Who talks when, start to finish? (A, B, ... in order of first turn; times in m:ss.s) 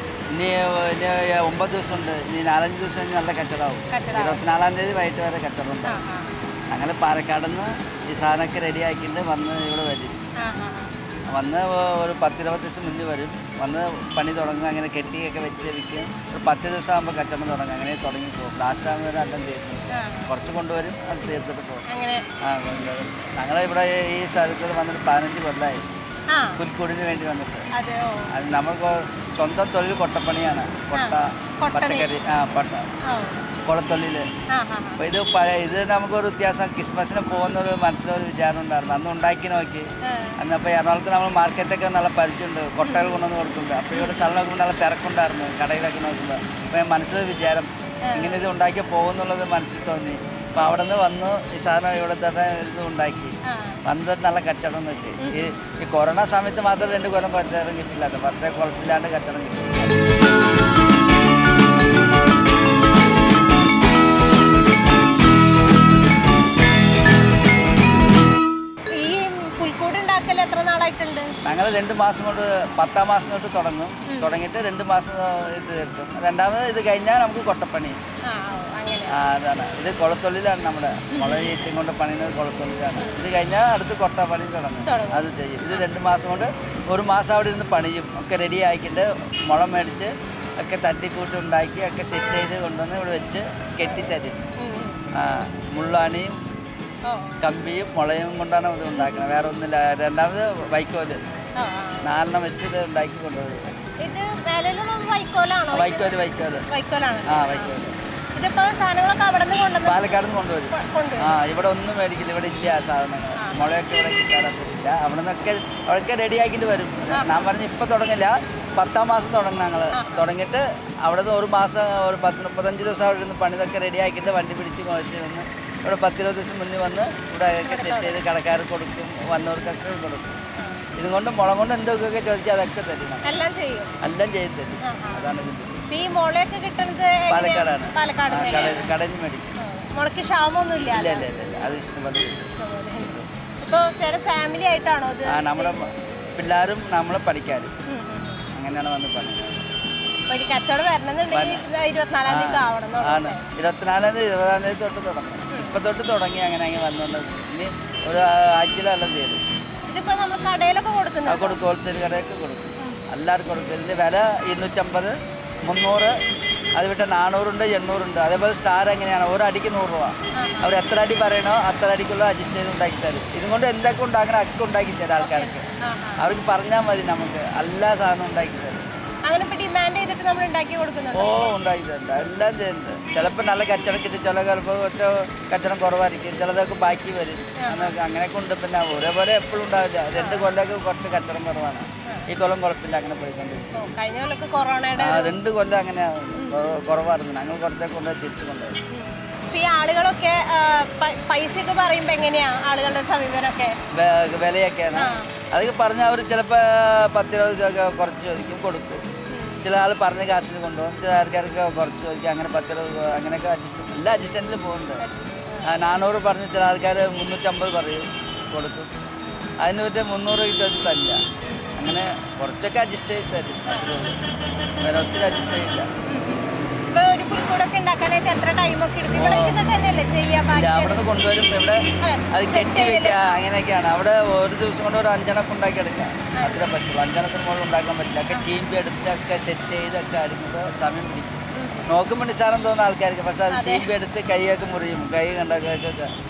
0:00.3-0:06.0 A
0:03.9-0:04.4 B
0:05.8-0:06.5 B
0:06.7-0:10.2 A
0:10.4-0:10.9 B
0:11.3-0:21.8 A
0:19.9-0:20.3 B
0:21.9-0:22.8 B
0:22.4-0:25.8 A
0:26.3-0:26.6 B
0:26.6-0:27.7 A
0:27.7-0:28.3 B
0:28.3-0:32.9 A
0:30.9-0:32.1 B
0:33.0-0:33.5 B
0:33.6-0:34.3 A
0:34.5-0:35.0 B
0:35.0-0:39.9 A
0:40.0-0:40.3 B
0:40.4-0:53.3 A
0:42.8-0:43.2 B
0:43.9-0:44.2 B
0:48.0-0:48.5 B
0:53.4-0:53.8 B
0:53.8-1:00.0 A
0:55.2-0:55.5 B
1:09.0-1:11.3 B
1:11.4-1:18.0 A
1:14.1-1:14.4 B
1:18.3-1:19.2 B
1:19.1-1:34.4 A
1:21.1-1:21.5 B
1:24.8-1:25.9 B
1:34.6-1:35.0 B
1:35.1-1:36.4 A
1:37.0-1:37.4 B
1:37.4-1:41.2 A
1:39.0-1:39.3 B
1:41.6-1:42.0 B
1:42.0-1:43.7 A
1:44.0-1:46.1 B
1:45.7-1:46.7 A
1:46.7-1:47.7 B
1:47.3-1:47.9 A
1:48.4-1:51.3 B
1:49.8-2:10.4 A
1:53.4-1:53.7 B
1:57.1-1:57.5 B
1:59.9-2:00.2 B
2:07.6-2:08.2 B
2:10.6-2:10.8 B
2:11.0-2:13.3 A
2:13.2-2:13.9 B
2:14.0-2:15.8 A
2:14.8-2:15.3 B
2:15.9-2:18.9 B
2:17.3-2:19.5 A
2:19.6-2:21.3 B
2:20.9-2:22.5 A
2:22.6-2:26.1 B
2:25.3-2:27.7 A
2:27.9-2:28.4 B
2:28.5-2:29.6 A
2:30.3-2:33.4 B
2:31.3-2:31.6 A
2:32.2-2:39.4 A
2:35.5-2:35.8 B
2:39.9-2:41.6 B
2:41.3-2:45.1 A
2:45.6-2:46.1 A
2:46.8-2:55.6 A
2:50.4-2:50.7 B
2:55.2-2:56.2 B
2:56.2-2:58.8 A
2:59.2-3:01.6 B
3:01.1-3:13.9 A
3:07.6-3:08.0 B
3:10.2-3:10.4 B
3:13.7-3:15.4 B
3:15.0-3:18.8 A
3:18.9-3:23.8 B
3:23.9-3:29.0 A
3:24.9-3:25.3 B
3:29.3-3:29.6 B
3:29.6-3:35.0 A
3:35.0-3:35.7 B
3:35.7-3:38.9 A
3:39.2-3:39.5 B
3:39.6-3:41.2 A
3:41.4-3:41.8 B
3:41.8-3:44.2 A
3:44.8-3:45.9 A
3:46.0-3:51.0 B
3:49.1-3:49.6 A
3:50.5-3:51.8 A
3:52.0-3:53.4 B
3:52.3-4:06.1 A
3:56.4-3:56.7 B
4:01.5-4:01.9 B
4:03.5-4:03.8 B